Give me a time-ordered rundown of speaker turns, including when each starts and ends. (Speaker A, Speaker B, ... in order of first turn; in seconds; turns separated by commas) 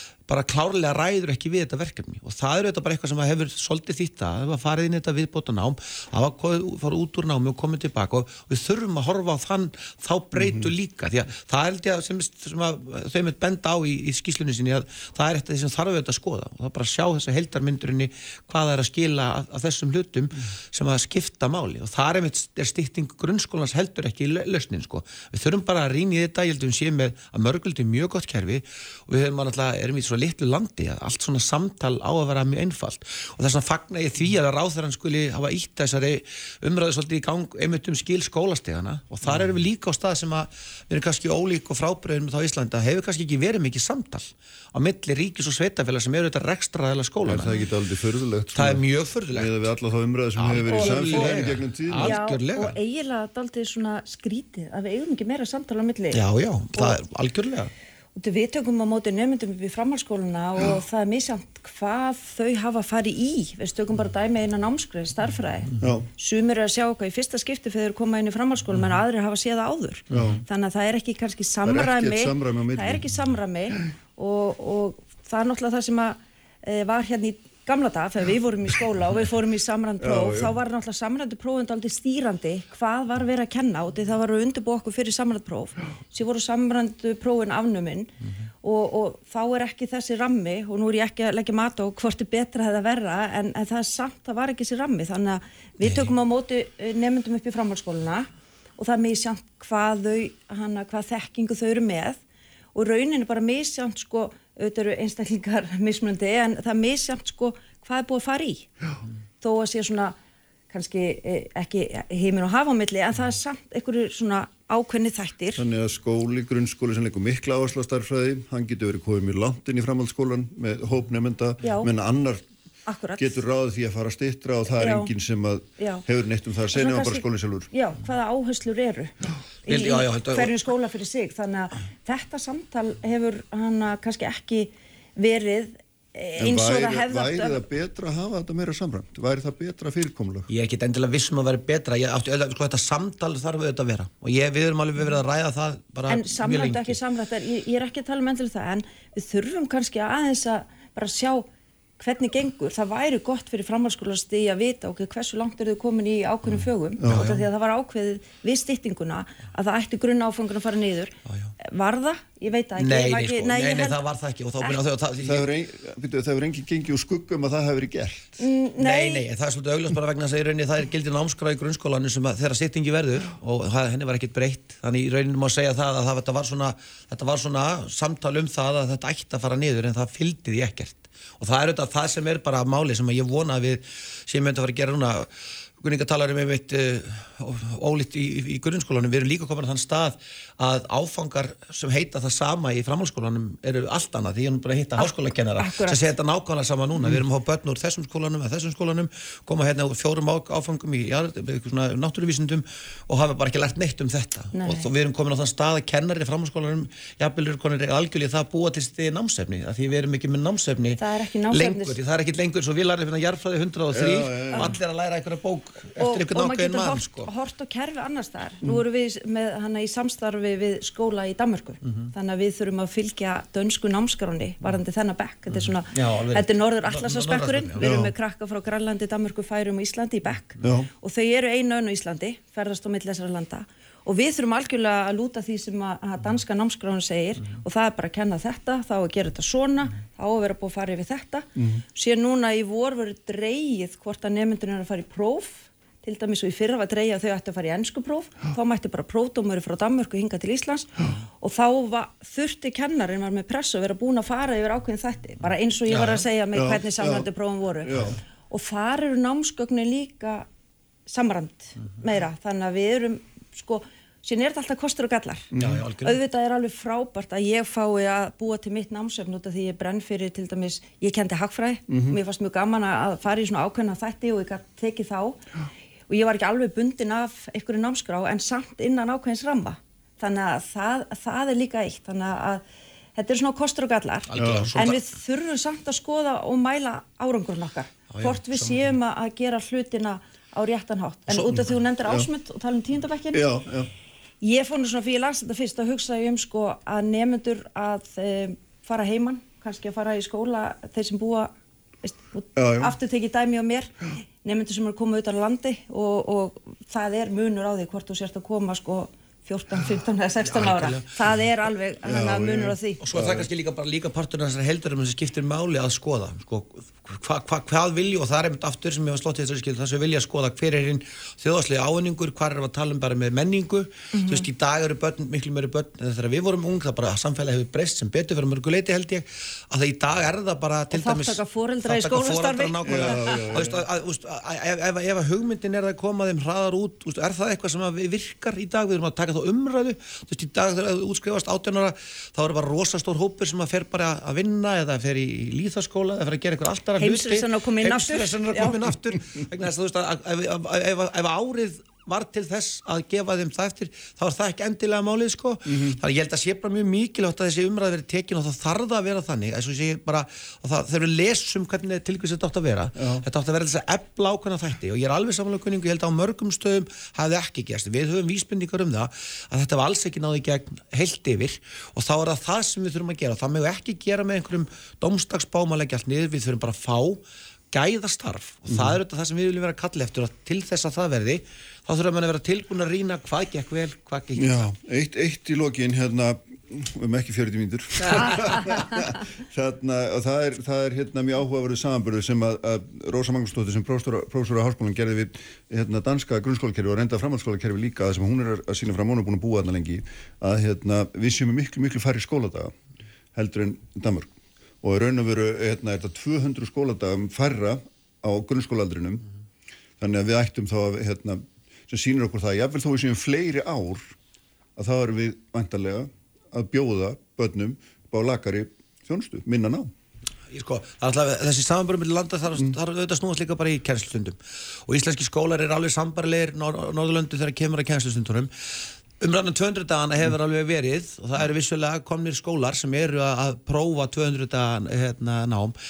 Speaker A: 0.3-47.5, Speaker B: 10.4-10.7, Speaker B: 39.3-39.5, Speaker B: 47.2-52.2, Speaker A: 48.5-49.7, Speaker A: 50.4-52.8, Speaker C: 50.7-56.2, Speaker A: 56.1-57.7, Speaker C: 58.2-102.2, Speaker B: 65.8-66.1, Speaker B: 70.1-70.4, Speaker B: 71.6-73.1, Speaker B: 80.0-80.6, Speaker C: 102.7-108.7, Speaker C: 109.4-110.2, Speaker C: 110.7-115.6, Speaker B: 115.5-122.5, Speaker C: 121.6-121.9, Speaker C: 122.9-123.4, Speaker B: 123.2-127.7, Speaker C: 124.7-125.1, Speaker C: 126.7-137.6, Speaker A: 129.7-130.5, Speaker B: 136.4-140.5, Speaker A: 140.5-147.0, Speaker C: 146.1-151.5, Speaker C: 152.0-164.1, Speaker B: 157.0-157.3, Speaker A: 157.1-157.4, Speaker A: 161.3-161.5, Speaker A: 162.8-165.4, Speaker B: 165.2-168.4, Speaker C: 168.4-169.3, Speaker A: 168.8-185.3, Speaker A: 185.8-217.3, Speaker C: 195.0-196.0, Speaker C: 204.5-204.9, Speaker C: 211.0-212.0, Speaker B: 213.9-214.7, Speaker C: 216.0-260.4, Speaker A: 221.8-222.1, Speaker A: 225.6-227.9, Speaker B: 227.8-228.1, Speaker B: 230.6-230.9, Speaker B: 241.6-241.8, Speaker A: 255.9-256.2, Speaker B: 256.5-257.3, Speaker B: 257.8-258.2, Speaker C: 261.1-275.4, Speaker B: 265.6-265.8, Speaker A: 265.6-266.2, Speaker B: 271.9-272.2, Speaker C: 276.1-282.6, Speaker C: 283.1-293.4, Speaker A: 284.3-285.0, Speaker B: 284.4-284.8, Speaker A: 288.1-288.9, Speaker A: 291.3-291.7, Speaker B: 293.3-293.9, Speaker C: 294.4-301.5, Speaker C: 302.0-313.0, Speaker B: 302.6-302.9, Speaker A: 310.4-311.1, Speaker B: 312.0-313.5, Speaker A: 313.0-384.7, Speaker C: 324.1-324.4, Speaker C: 330.9-333.7, Speaker B: 332.8-333.8, Speaker C: 347.0-348.9, Speaker B: 355.7-356.0, Speaker B: 362.9-363.2, Speaker B: 378.7-379.0, Speaker B: 384.4-402.8, Speaker C: 388.4-388.8, Speaker B: 403.3-404.3, Speaker B: 404.8-409.2, Speaker B: 410.0-414.1, Speaker B: 414.8-419.9, Speaker A: 420.5-435.8